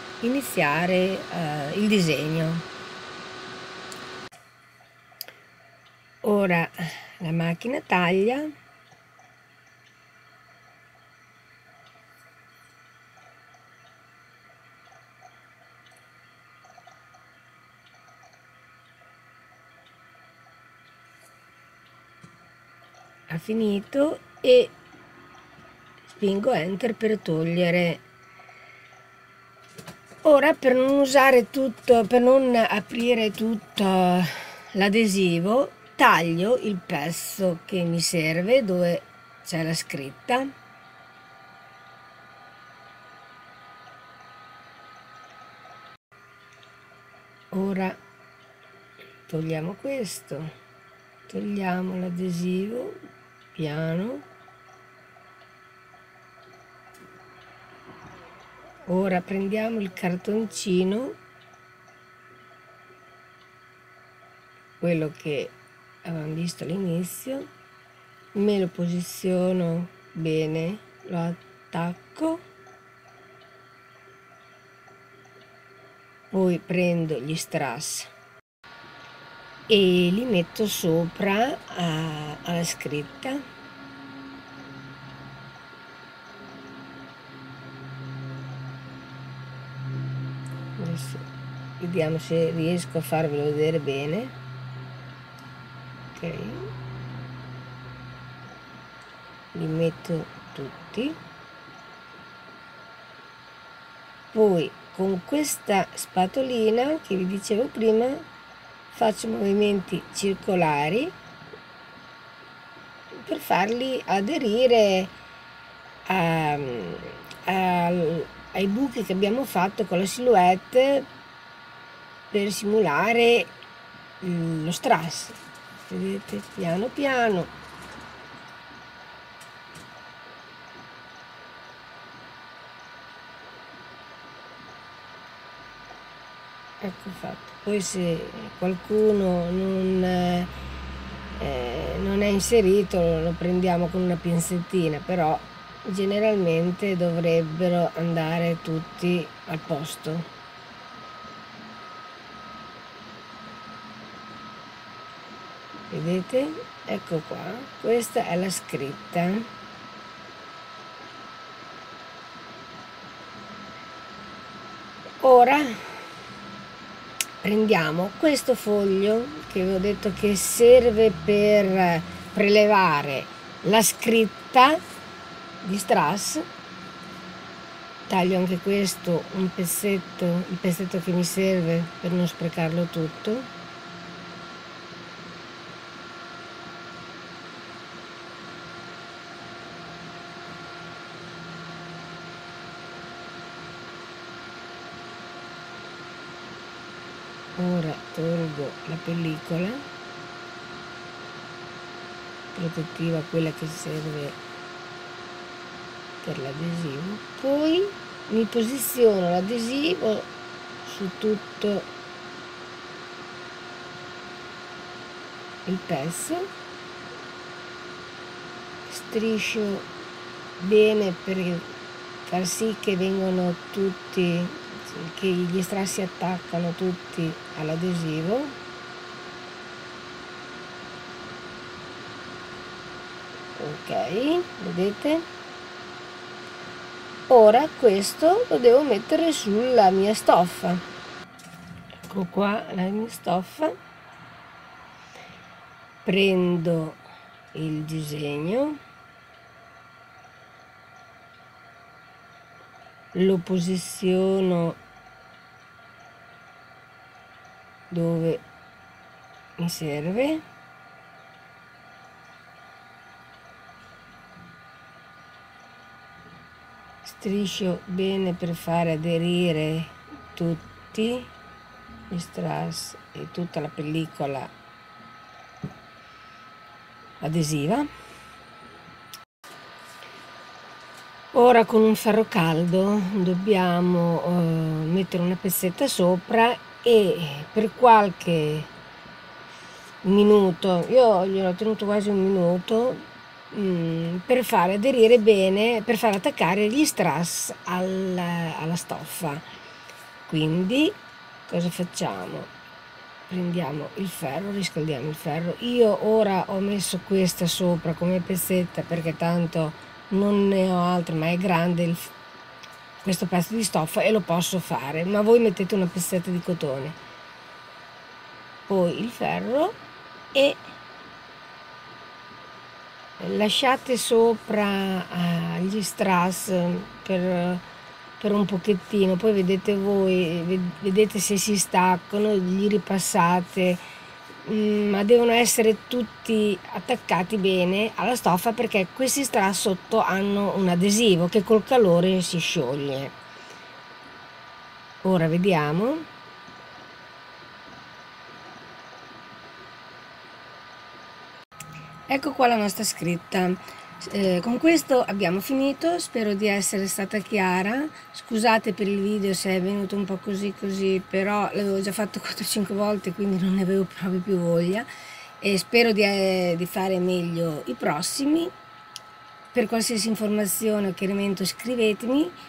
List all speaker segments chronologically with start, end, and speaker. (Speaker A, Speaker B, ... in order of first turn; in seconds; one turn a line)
Speaker A: 0.2-2.6
Speaker A: 6.2-8.5
Speaker A: 23.3-24.7
Speaker A: 26.1-28.0
Speaker A: 30.2-40.5
Speaker A: 47.5-48.0
Speaker A: 49.3-50.5
Speaker A: 51.3-53.0
Speaker A: 53.5-54.2
Speaker A: 58.9-61.2
Speaker A: 64.8-67.5
Speaker A: 68.3-72.4
Speaker A: 76.3-78.1
Speaker A: 79.7-83.4
Speaker A: 90.8-91.2
Speaker A: 91.8-94.3
Speaker A: 96.1-96.7
Speaker A: 99.5-101.2
Speaker A: 104.3-108.2
Speaker A: 108.9-111.1
Speaker A: 113.1-115.1
Speaker A: 116.1-121.1
Speaker A: 122.3-123.5
Speaker A: 124.2-127.5
Speaker A: 136.8-140.5
Speaker A: 141.4-150.3
Speaker A: 155.9-159.5
Speaker A: 165.2-166.0
Speaker A: 167.4-174.8
Speaker A: 175.6-176.4
Speaker A: 178.1-183.5
Speaker A: 197.6-199.8
Speaker A: 202.5-204.4
Speaker A: 206.2-210.3
Speaker A: 210.8-211.9
Speaker A: 215.7-216.5
Speaker A: 218.9-219.9
Speaker A: 220.6-221.7
Speaker A: 222.3-228.5
Speaker A: 233.6-235.3
Speaker A: 237.3-240.8
Speaker A: 242.1-243.8
Speaker A: 246.1-247.0
Speaker A: 247.5-248.8
Speaker A: 253.1-254.8
Speaker A: 257.9-258.4
Speaker A: 259.6-260.4
Speaker A: 267.0-271.3
Speaker A: 272.1-274.5
Speaker A: 277.2-277.9
Speaker A: 281.3-288.7
Speaker A: 290.0-299.4
Speaker A: 300.3-301.0
Speaker A: 301.5-302.5
Speaker A: 303.3-312.1
Speaker A: 313.0-317.0
Speaker A: 318.7-319.8
Speaker A: 320.3-320.6
Speaker A: 323.2-327.6
Speaker A: 328.2-333.8
Speaker A: 334.4-343.1
Speaker A: 345.0-346.1
Speaker A: 352.1-364.9
Speaker A: 365.4-368.5
Speaker A: 369.5-372.4